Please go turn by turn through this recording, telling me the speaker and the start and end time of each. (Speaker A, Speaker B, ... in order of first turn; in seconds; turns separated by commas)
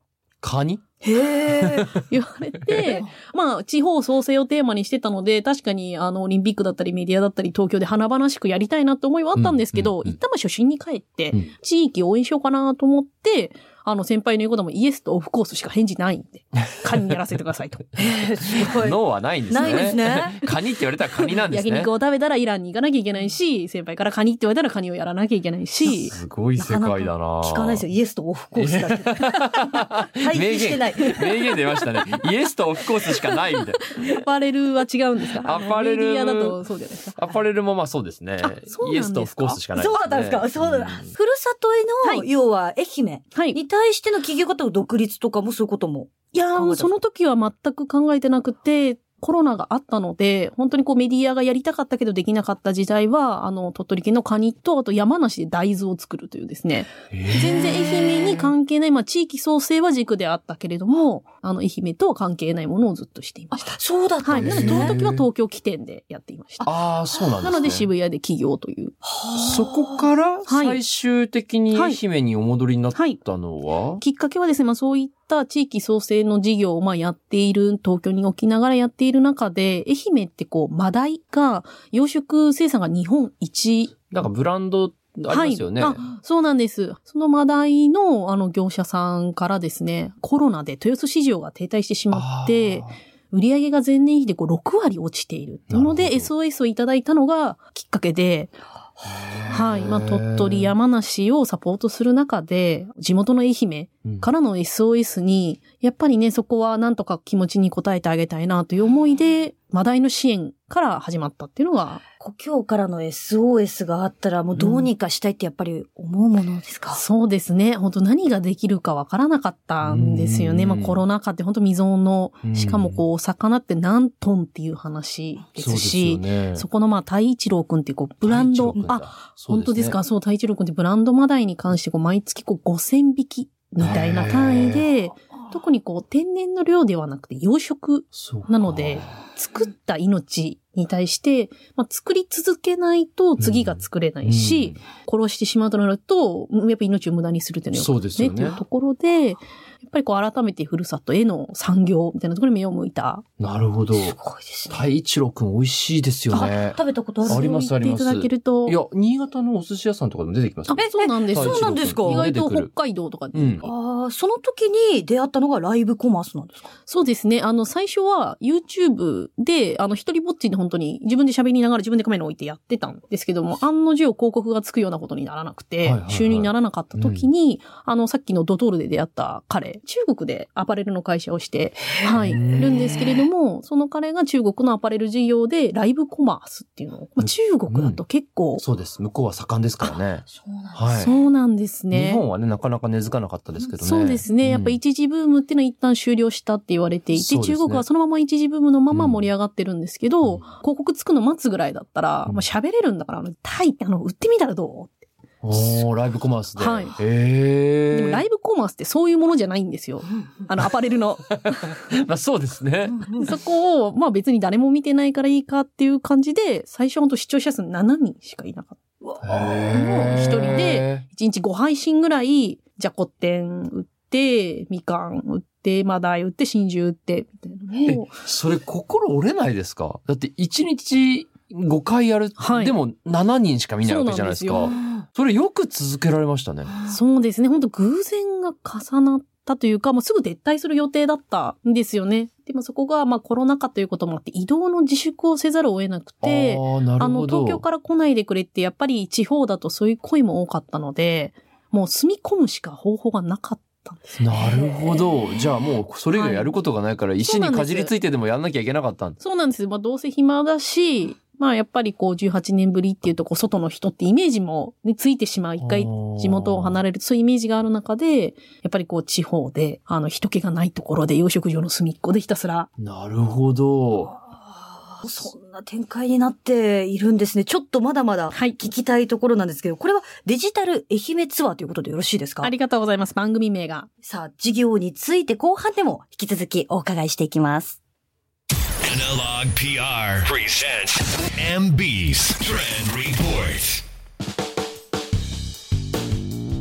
Speaker A: 0.4-0.8, Speaker B: 1.0-1.9, Speaker A: 1.4-1.9, Speaker C: 2.1-17.8, Speaker A: 9.3-10.1, Speaker B: 17.9-20.4, Speaker A: 18.5-21.9, Speaker C: 19.6-19.9, Speaker C: 21.2-26.1, Speaker A: 25.8-27.8, Speaker B: 26.6-31.3, Speaker A: 28.6-33.9, Speaker C: 33.8-37.2, Speaker A: 35.4-36.6, Speaker A: 37.1-41.1, Speaker C: 38.4-39.6, Speaker B: 39.7-46.9, Speaker C: 46.3-63.7, Speaker A: 57.1-58.3, Speaker B: 63.5-65.0, Speaker C: 64.2-66.7, Speaker A: 64.3-65.2, Speaker A: 66.6-67.9, Speaker C: 67.4-69.0, Speaker B: 69.0-70.0, Speaker A: 69.3-74.0, Speaker C: 70.5-70.8, Speaker C: 71.7-72.0, Speaker C: 74.0-83.9, Speaker A: 84.1-86.0, Speaker C: 85.3-98.5, Speaker A: 92.1-92.9, Speaker A: 95.7-96.3, Speaker A: 99.0-100.7, Speaker C: 99.5-112.0, Speaker B: 112.2-117.0, Speaker C: 114.6-114.8, Speaker C: 116.9-153.2, Speaker A: 119.8-121.0, Speaker A: 122.4-123.0, Speaker A: 125.6-126.7, Speaker A: 128.2-130.0, Speaker A: 133.8-134.9, Speaker A: 138.1-139.1, Speaker A: 143.4-144.8, Speaker A: 147.7-148.6, Speaker A: 153.4-154.2, Speaker B: 153.9-154.8, Speaker A: 154.7-162.7, Speaker B: 156.3-157.5, Speaker C: 157.2-158.8, Speaker C: 160.7-163.7, Speaker B: 160.7-162.2, Speaker A: 163.3-163.6, Speaker B: 163.6-166.7, Speaker C: 166.9-188.6, Speaker A: 175.8-177.3, Speaker A: 182.1-183.1, Speaker B: 182.6-183.1, Speaker A: 187.2-188.0, Speaker A: 188.6-191.1, Speaker B: 190.2-191.2, Speaker C: 190.9-192.2, Speaker A: 191.9-194.8, Speaker C: 193.8-205.7, Speaker A: 197.1-197.8, Speaker A: 198.9-199.2, Speaker A: 205.4-208.2, Speaker C: 206.6-207.0, Speaker C: 207.9-211.7, Speaker A: 211.3-213.1, Speaker B: 212.9-213.3, Speaker C: 213.1-218.8, Speaker A: 219.2-221.0, Speaker C: 219.6-228.1, Speaker A: 227.8-236.7, Speaker C: 232.4-232.7, Speaker C: 233.8-234.8, Speaker B: 234.7-235.0, Speaker B: 236.7-236.9, Speaker C: 236.9-255.1, Speaker A: 246.2-247.6, Speaker A: 254.2-259.2, Speaker C: 256.1-256.5, Speaker C: 257.2-257.9, Speaker C: 259.2-272.7, Speaker A: 265.6-266.8, Speaker A: 272.8-274.1, Speaker B: 274.1-282.5, Speaker C: 278.3-278.6, Speaker C: 282.4-283.9, Speaker B: 284.0-287.8, Speaker D: 288.8-293.8